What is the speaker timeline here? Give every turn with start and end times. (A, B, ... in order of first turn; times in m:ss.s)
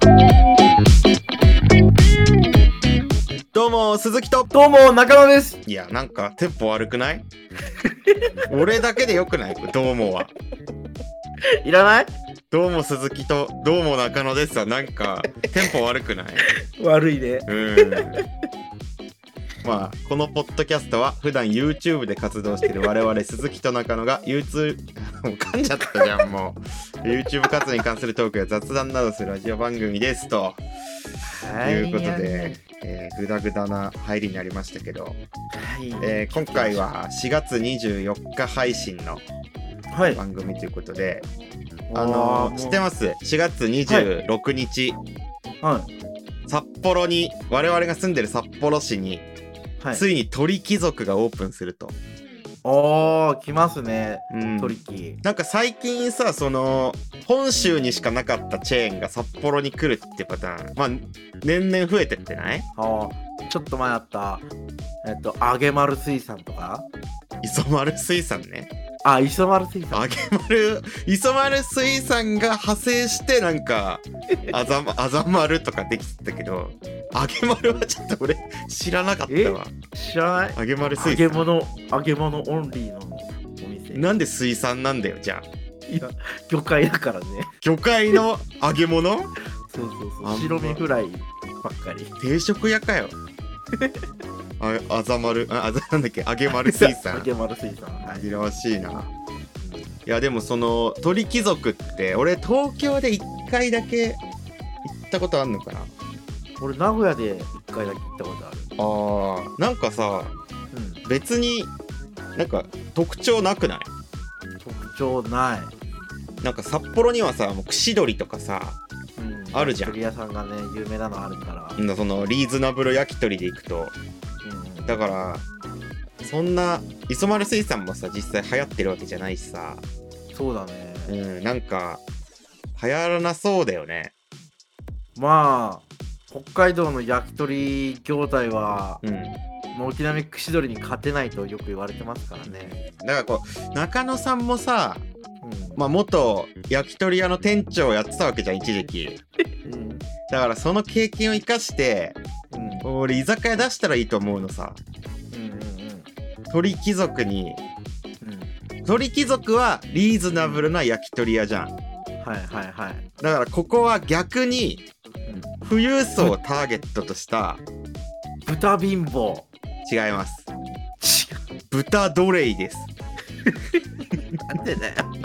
0:03.5-0:04.5 A
0:04.5-0:05.6 B
0:05.7-0:07.3 A
0:07.8-0:08.2 B
0:08.5-0:10.3 A
0:11.6-0:12.1 B
0:12.5-0:16.5 A
0:16.5-0:18.2 B
0:17.5-0:18.2 A
0:19.6-0:30.6 A
0:31.2-0:32.6 B
0:31.6-0:35.2 A
0:35.5-0:36.9 B
0:36.0-0:39.2 A
0:39.9-0:40.2 B
0:40.2-0:41.3 A
0:41.9-0:42.9 B
0:41.9-0:45.0 A
0:45.6-0:45.9 B
0:46.5-0:49.3 A
0:49.8-0:50.0 B
0:49.9-0:52.0 A
0:52.6-0:55.2 B
0:54.3-1:02.7 A
0:57.5-0:58.1 B
1:02.8-1:04.5 B
1:05.0-1:06.9 B
1:07.4-1:08.7 A
1:09.0-1:10.2 B
1:09.9-1:19.7 A
1:19.3-1:24.1 B
1:20.6-1:21.4 A
1:23.9-1:25.5 A
1:25.9-1:27.5 B
1:27.6-1:29.3 A
1:29.7-1:32.1 B
1:30.2-1:30.8 A
1:32.2-1:33.2 A
1:33.8-1:34.0 B
1:34.6-1:37.3 A
1:36.5-1:38.3 B
1:38.1-1:39.1 A
1:39.6-1:40.0 B
1:40.1-1:44.2 A
1:44.8-1:45.9 A
1:46.6-1:48.8 B
1:48.8-1:50.3 A
1:50.7-1:51.0 B
1:51.0-1:51.7 A
1:52.4-1:53.9 A
1:54.6-1:55.7 B
1:56.4-1:58.8 A
1:59.2-2:01.8 B
1:59.5-2:00.0 A
2:01.8-2:04.0 A
2:04.4-2:05.0 B
2:04.9-2:05.4 A
2:06.2-2:09.8 A
2:10.3-2:11.1 B
2:11.1-2:12.0 A
2:12.8-2:14.1 A
2:15.2-2:19.0 B
2:19.0-2:19.4 A
2:19.7-2:22.8 B
2:22.4-2:25.1 A
2:25.4-2:25.8 B
2:25.8-2:29.2 A
2:29.6-2:30.1 B
2:30.3-2:32.2 A
2:32.5-2:32.9 B
2:32.8-2:34.8 A
2:35.3-2:36.1 B
2:36.5-2:37.6 A
2:38.2-2:38.5 B
2:38.8-2:41.8 A
2:40.4-2:40.6 B
2:42.2-2:43.1 B
2:43.2-2:44.8 A
2:45.3-2:45.6 B
2:45.6-2:47.6 A
2:48.5-2:49.5 B
2:49.9-2:50.5 A
2:51.0-2:51.4 B
2:51.7-2:52.9 A
2:53.4-2:55.1 B